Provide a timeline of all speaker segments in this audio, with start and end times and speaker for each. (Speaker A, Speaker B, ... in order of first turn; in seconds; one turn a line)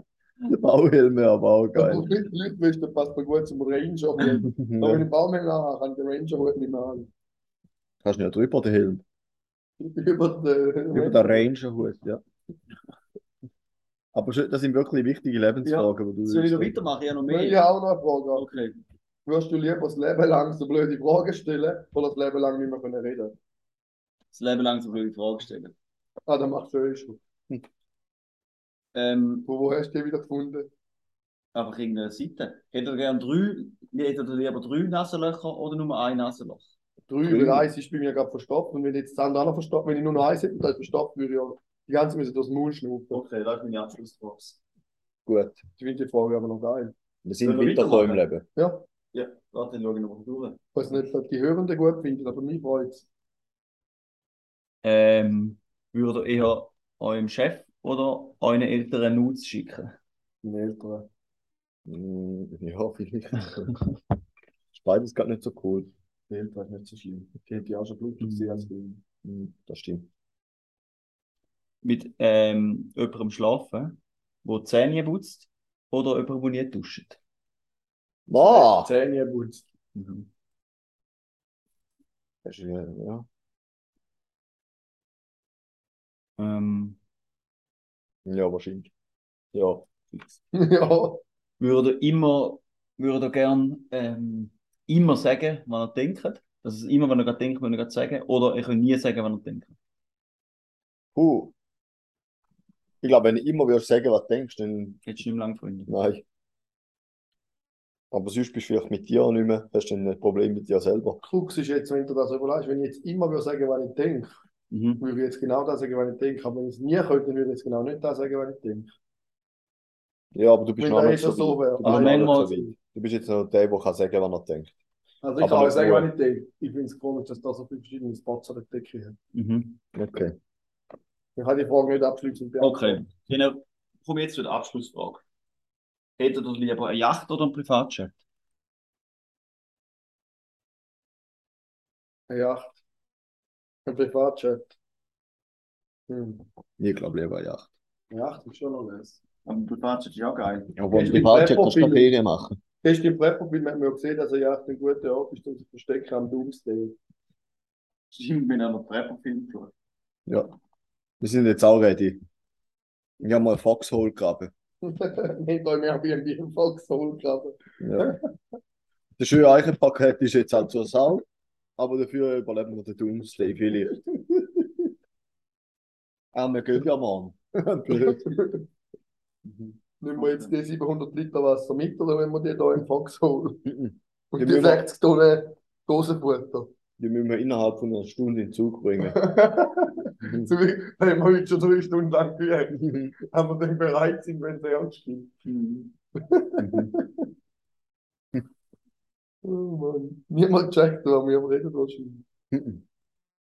Speaker A: 0.5-2.1
Speaker B: 1.8-7.1
Speaker A: 4.4-5.1
Speaker A: 8.0-9.0
Speaker B: 9.8-11.5
Speaker A: 10.9-12.2
Speaker A: 14.1-16.7
Speaker C: 15.7-17.7
Speaker B: 17.3-18.5
Speaker C: 18.4-18.8
Speaker B: 19.3-23.4
Speaker C: 24.3-25.7
Speaker B: 26.3-27.2
Speaker C: 28.9-29.5
Speaker B: 29.5-30.7
Speaker C: 31.5-36.7
Speaker B: 37.1-43.2
Speaker A: 37.3-37.7
Speaker C: 43.1-44.6
Speaker A: 45.3-45.6
Speaker B: 45.8-46.9
Speaker A: 47.2-48.5
Speaker C: 47.4-48.2
Speaker B: 48.6-48.9
Speaker C: 49.1-50.6
Speaker B: 50.8-53.0
Speaker C: 54.8-60.0
Speaker B: 60.4-61.1
Speaker A: 61.9-63.8
Speaker A: 64.7-65.9
Speaker B: 66.3-69.0
Speaker A: 69.2-70.1
Speaker C: 71.8-77.2
Speaker A: 78.3-78.9
Speaker B: 78.4-79.7
Speaker C: 80.0-80.3
Speaker A: 82.5-83.3
Speaker C: 86.4-87.0
Speaker A: 88.3-88.9
Speaker A: 89.5-89.9
Speaker B: 90.5-91.2
Speaker C: 91.6-99.7
Speaker A: 101.2-101.5
Speaker A: 103.0-105.0
Speaker C: 105.0-105.9
Speaker A: 105.9-106.2
Speaker A: 108.1-111.2
Speaker B: 111.2-114.3
Speaker C: 114.7-115.0
Speaker B: 115.0-118.9
Speaker A: 120.3-124.7
Speaker B: 120.8-122.7
Speaker C: 121.8-122.6
Speaker B: 125.2-129.2
Speaker A: 125.4-126.1
Speaker C: 129.3-129.8
Speaker A: 129.9-130.3
Speaker B: 131.4-133.0
Speaker C: 132.6-135.2
Speaker C: 136.2-138.2
Speaker B: 142.3-142.8
Speaker B: 143.9-144.8
Speaker B: 146.1-146.4
Speaker A: 146.8-147.7
Speaker B: 148.1-149.2
Speaker C: 149.4-150.8
Speaker A: 150.8-152.6
Speaker B: 150.9-152.1
Speaker B: 152.8-157.0
Speaker C: 158.1-159.7
Speaker A: 161.2-162.2
Speaker A: 163.2-164.5
Speaker B: 164.8-168.2
Speaker A: 167.8-168.1
Speaker A: 169.2-171.2
Speaker A: 171.8-174.7
Speaker A: 176.3-178.4
Speaker B: 178.1-178.6
Speaker B: 180.0-183.7
Speaker C: 180.2-180.5
Speaker A: 183.7-184.8
Speaker B: 184.3-186.7
Speaker A: 187.0-189.2
Speaker B: 189.1-195.3
Speaker A: 190.2-190.5
Speaker A: 192.8-193.1
Speaker C: 195.4-195.9
Speaker B: 196.2-197.1
Speaker A: 196.6-197.0
Speaker B: 199.4-202.2
Speaker A: 202.5-202.8